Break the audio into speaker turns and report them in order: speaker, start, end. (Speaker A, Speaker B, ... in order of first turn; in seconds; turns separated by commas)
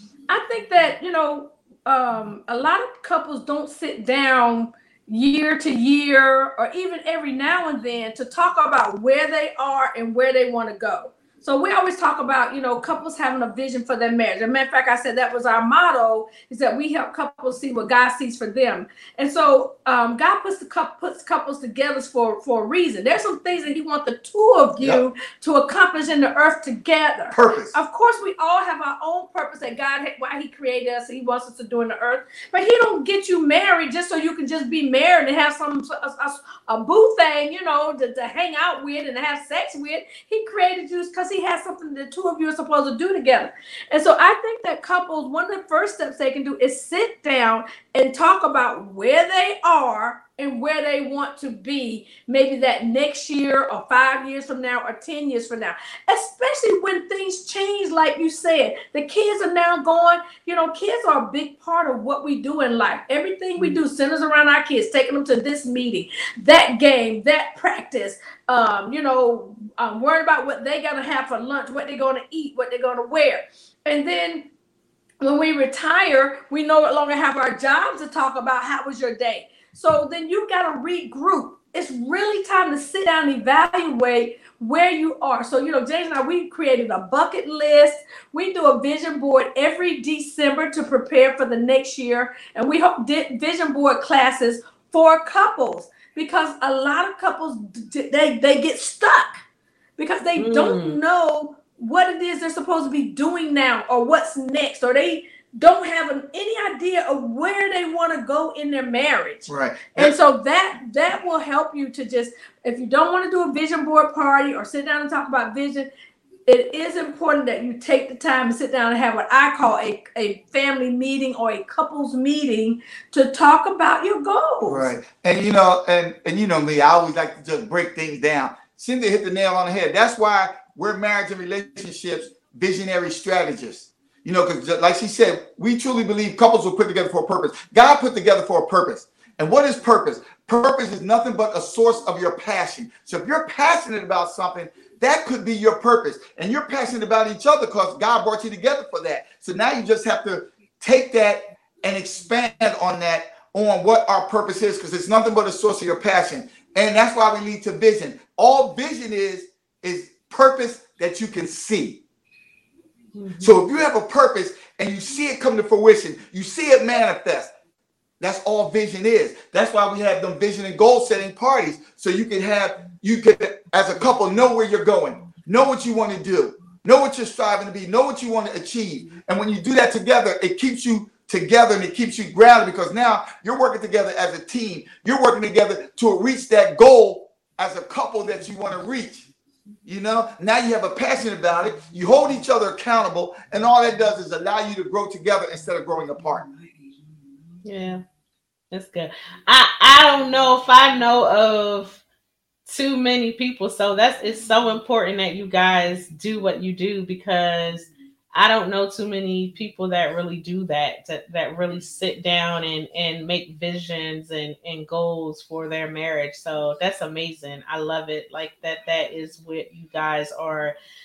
Speaker A: 0.3-74.5, Speaker B: 27.3-27.8, Speaker A: 75.2-99.4, Speaker A: 100.0-115.9, Speaker C: 100.4-101.0, Speaker B: 109.5-110.1, Speaker A: 116.5-124.9, Speaker B: 124.7-162.0, Speaker C: 163.2-163.6, Speaker B: 163.4-167.5, Speaker B: 168.2-189.3, Speaker B: 189.8-196.5, Speaker C: 197.6-198.0, Speaker C: 198.7-202.0, Speaker C: 202.7-220.7